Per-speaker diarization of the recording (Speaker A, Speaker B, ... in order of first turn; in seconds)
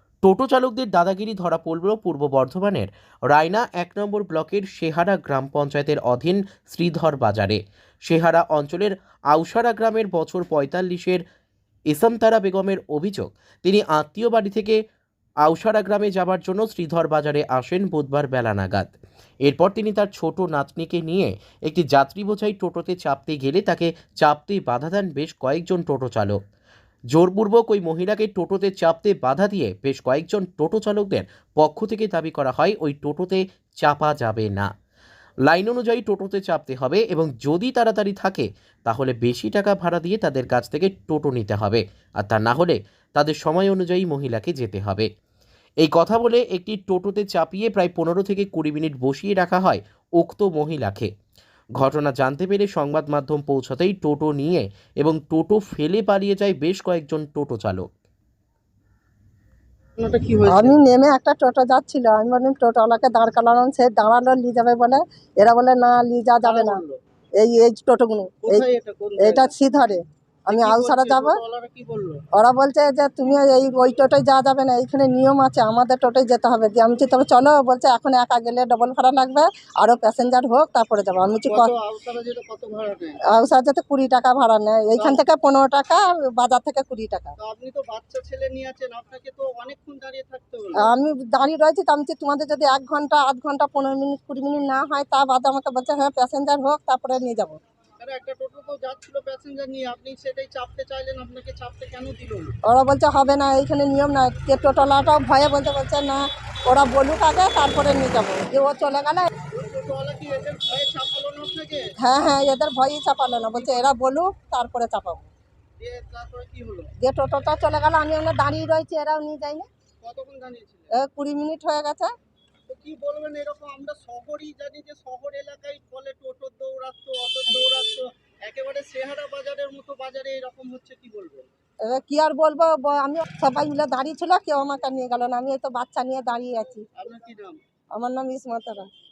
Speaker A: 0.2-11.2, 11.9-14.8, 15.4-26.4, 27.1-34.7, 35.5-45.1, 45.8-51.1, 51.8-57.8
Speaker B: 60.0-60.8, 66.4-67.0, 68.4-69.5, 70.5-72.2, 81.5-83.2, 87.4-90.9, 98.0-102.5, 109.5-111.9, 113.5-113.9, 115.8-116.9, 120.0-120.9, 122.7-131.5, 136.9-137.6
Speaker C: 60.5-66.8, 67.4-68.6, 69.2-71.4, 72.3-81.7, 83.2-87.3, 90.8-97.6, 102.7-109.3, 112.0-115.3, 117.0-119.7, 120.9-122.1, 131.8-136.8, 137.9-138.9